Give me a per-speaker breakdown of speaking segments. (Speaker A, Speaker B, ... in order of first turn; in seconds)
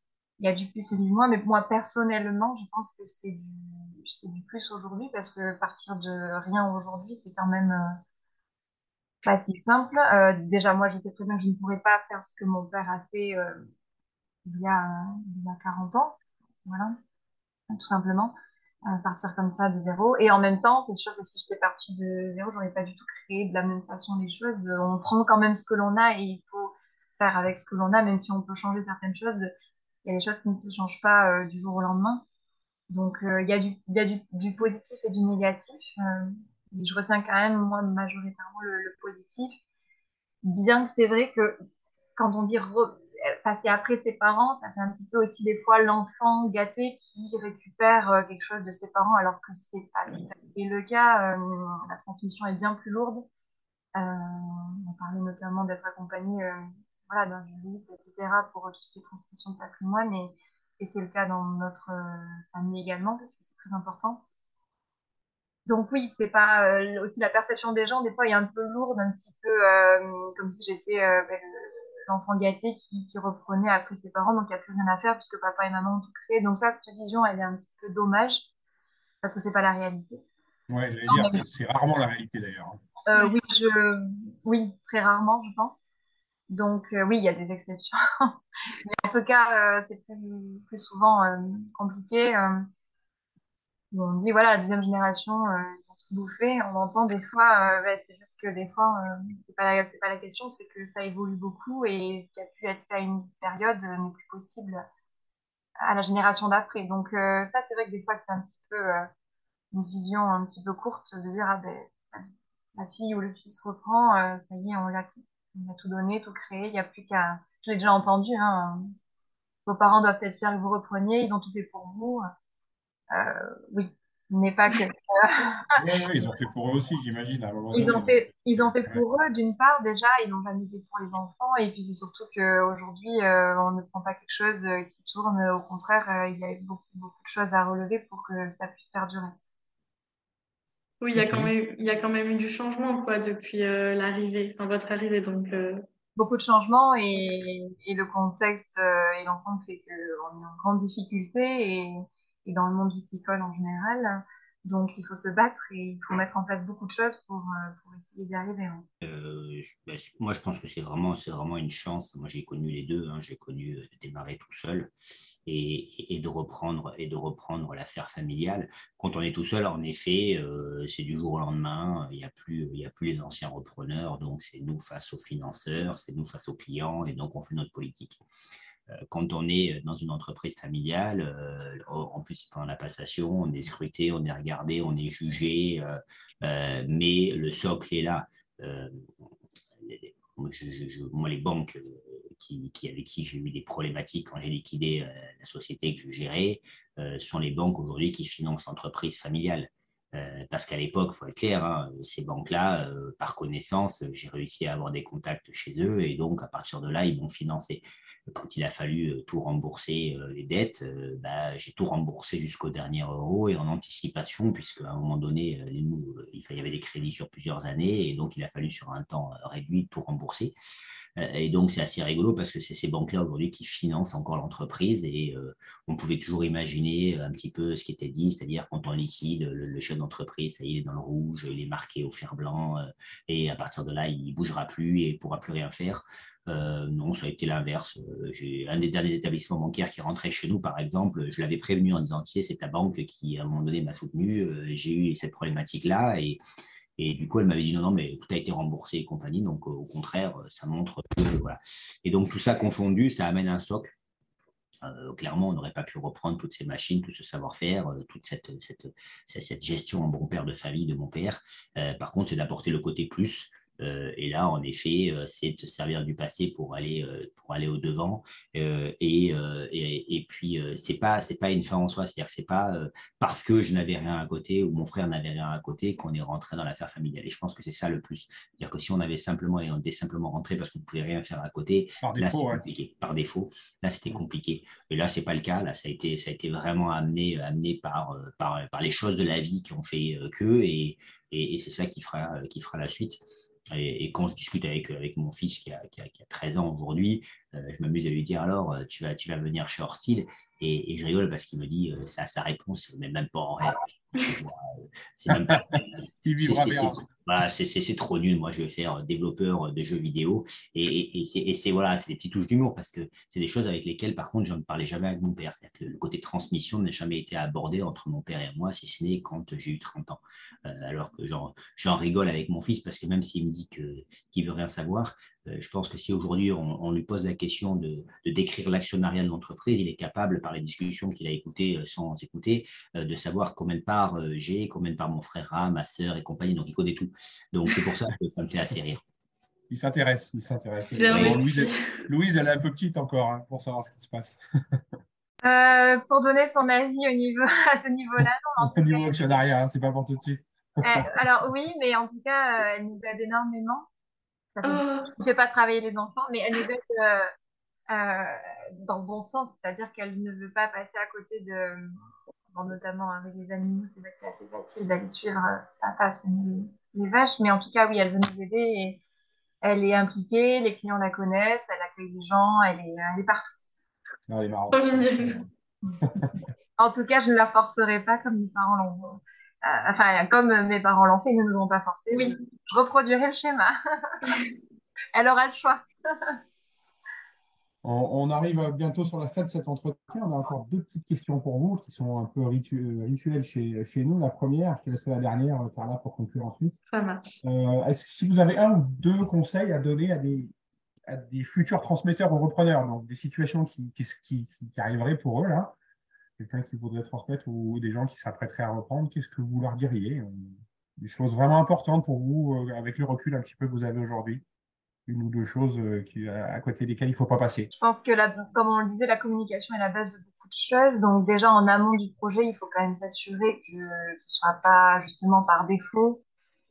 Speaker A: 0.4-8.0, 9.2-13.6, 14.4-17.0, 17.7-18.3, 18.9-29.5, 30.0-32.2, 32.9-39.6, 40.4-41.6, 42.1-53.3, 53.9-64.2, 65.7-78.5, 79.2-80.2, 81.1-81.4, 83.1-85.9, 86.5-92.7, 93.9-104.8, 105.8-109.1, 109.7-118.9, 119.7-122.3, 123.1-125.6, 127.7-139.3, 146.2-158.9, 345.4-349.1, 350.8-353.9, 354.5-357.3, 357.9-361.9, 362.5-369.0, 369.6-373.5, 376.8-384.3, 385.1-386.4, 417.7-426.2
Speaker B: 80.7-82.8, 125.7-129.0, 141.1-141.5, 282.0-282.6, 305.3-307.0, 339.7-344.8, 348.6-351.1, 374.3-375.4, 387.8-396.8, 397.4-400.5, 401.1-405.7, 406.4-414.4, 415.1-417.7
Speaker C: 141.0-145.8, 340.9-342.0, 354.6-355.1, 374.7-375.4, 382.1-382.4, 396.9-397.4
Speaker D: 159.0-164.9, 165.4-178.2, 178.9-189.3, 189.8-220.5, 221.2-246.4, 247.0-253.9, 254.8-339.0, 341.1-341.4